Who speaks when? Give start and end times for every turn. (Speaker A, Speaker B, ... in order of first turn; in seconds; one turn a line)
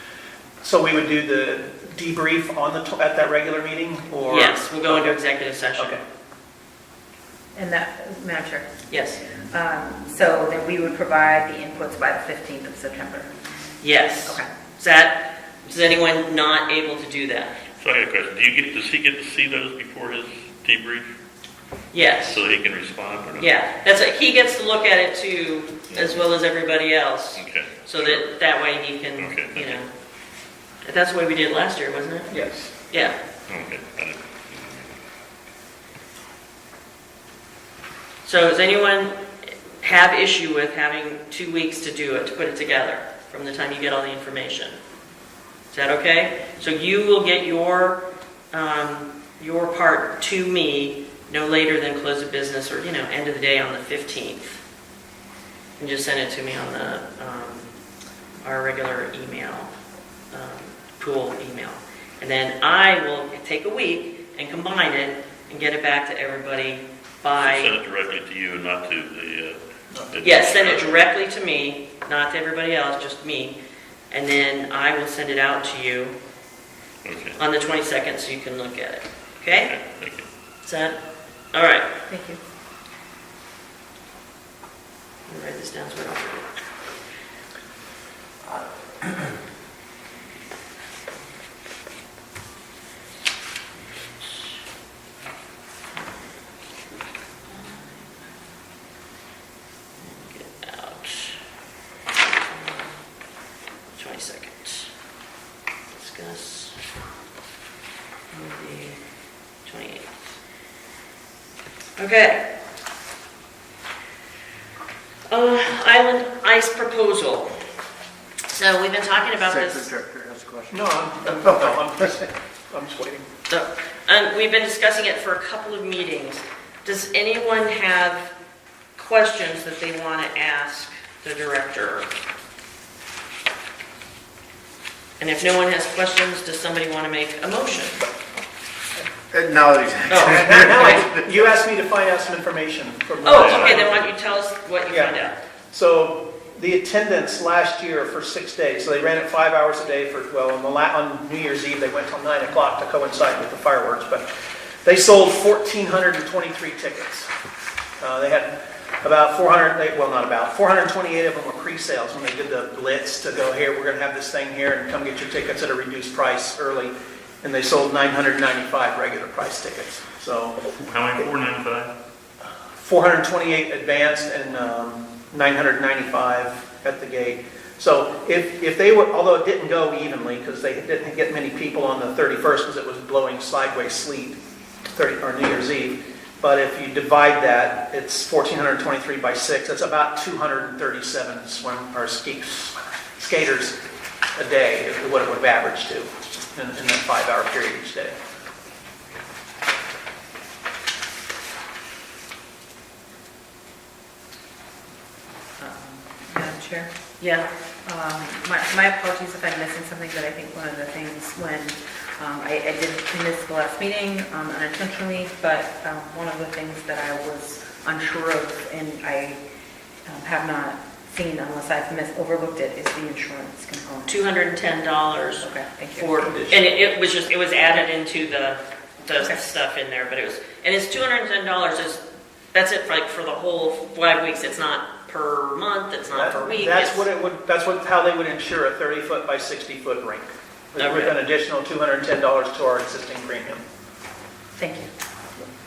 Speaker A: 0.6-5.2
Speaker B: 4.2-6.0
Speaker C: 7.5-8.8
Speaker B: 8.9-9.2
Speaker C: 9.3-13.3
Speaker B: 13.8-17.6
Speaker D: 17.8-21.1
Speaker B: 21.9-22.4
Speaker D: 22.3-23.5
Speaker B: 23.4-29.9
Speaker D: 27.3-28.3
Speaker D: 29.2-29.8
Speaker B: 30.8-32.3
Speaker A: 32.3-32.7
Speaker B: 32.9-33.1
Speaker D: 33.5-35.0
Speaker B: 38.2-39.1
Speaker B: 39.8-44.8
Speaker B: 45.7-54.6
Speaker B: 55.8-57.7
Speaker B: 58.4-59.7
Speaker B: 60.3-67.7
Speaker D: 67.4-71.0
Speaker B: 70.2-73.6
Speaker B: 74.1-76.1
Speaker D: 77.0-77.4
Speaker B: 77.4-79.7
Speaker D: 79.6-80.2
Speaker B: 80.6-81.0
Speaker B: 81.5-81.9
Speaker C: 82.1-82.4
Speaker B: 85.3-86.5
Speaker B: 97.5-98.0
Speaker B: 100.0-101.4
Speaker B: 102.2-103.0
Speaker B: 103.9-104.9
Speaker B: 105.9-106.8
Speaker B: 108.3-109.0
Speaker B: 109.6-110.1
Speaker B: 112.0-112.5
Speaker B: 115.3-117.6
Speaker B: 118.5-119.9
Speaker E: 119.5-120.7
Speaker C: 120.0-120.6
Speaker A: 120.7-123.3
Speaker B: 123.5-128.3
Speaker B: 128.9-132.1
Speaker B: 135.2-138.1
Speaker E: 139.3-141.4
Speaker B: 140.1-141.0
Speaker A: 140.2-144.0
Speaker B: 143.2-145.4
Speaker D: 143.4-143.8
Speaker A: 144.9-145.1
Speaker A: 145.7-154.2
Speaker A: 154.8-157.3
Speaker A: 158.0-170.5
Speaker D: 170.8-171.9
Speaker A: 172.8-184.4
Speaker A: 184.9-193.8
Speaker A: 194.3-198.2
Speaker C: 205.6-206.9
Speaker B: 207.2-207.5
Speaker C: 207.8-219.4
Speaker C: 220.1-224.2
Speaker B: 224.1-232.0
Speaker C: 225.4-226.1
Speaker A: 226.2-226.7
Speaker C: 229.2-229.4
Speaker B: 232.5-237.0
Speaker A: 236.1-243.6
Speaker B: 240.8-241.1
Speaker C: 244.6-244.9